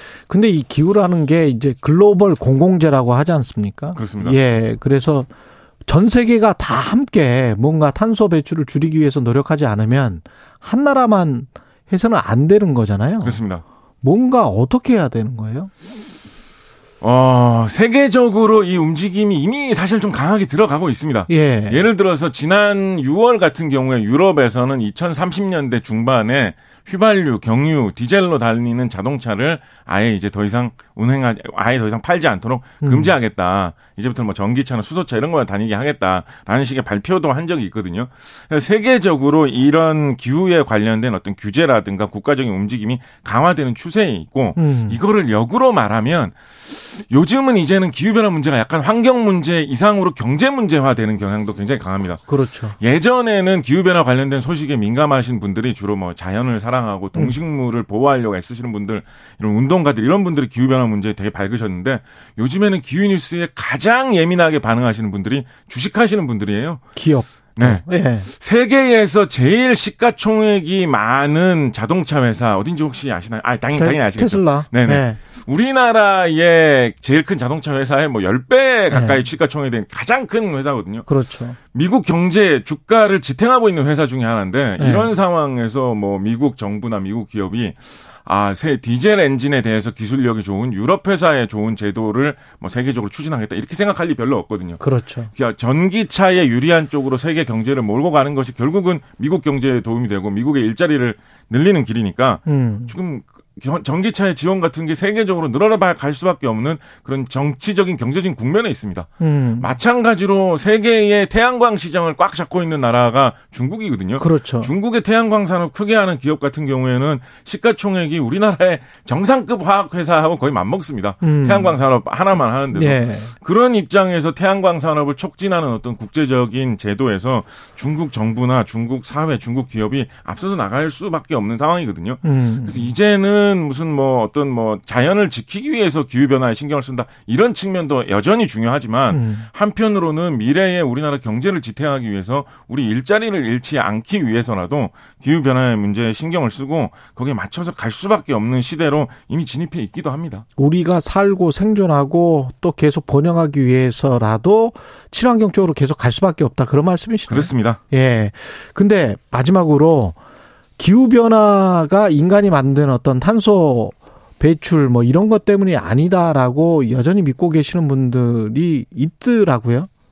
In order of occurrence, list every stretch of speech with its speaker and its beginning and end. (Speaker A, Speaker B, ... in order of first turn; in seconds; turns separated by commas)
Speaker A: 0.3-5.3, Speaker B: 4.0-4.4, Speaker A: 5.9-13.4, Speaker B: 13.2-13.6, Speaker A: 14.0-15.7, Speaker B: 17.0-52.2, Speaker A: 21.3-21.8, Speaker A: 32.8-33.1, Speaker A: 44.6-45.0, Speaker A: 52.3-52.8, Speaker B: 52.8-66.8, Speaker A: 67.0-68.3, Speaker B: 67.6-81.1, Speaker A: 73.8-75.2, Speaker A: 78.9-79.2, Speaker A: 81.1-81.6, Speaker B: 81.7-94.8, Speaker A: 84.8-85.1, Speaker A: 94.8-95.3, Speaker B: 95.3-150.4, Speaker A: 102.5-102.9, Speaker A: 109.2-109.7, Speaker A: 114.2-114.7, Speaker A: 121.2-121.8, Speaker A: 122.7-123.3, Speaker A: 132.2-132.9, Speaker A: 139.1-139.5, Speaker A: 150.6-160.2, Speaker B: 157.3-157.8, Speaker A: 160.8-169.9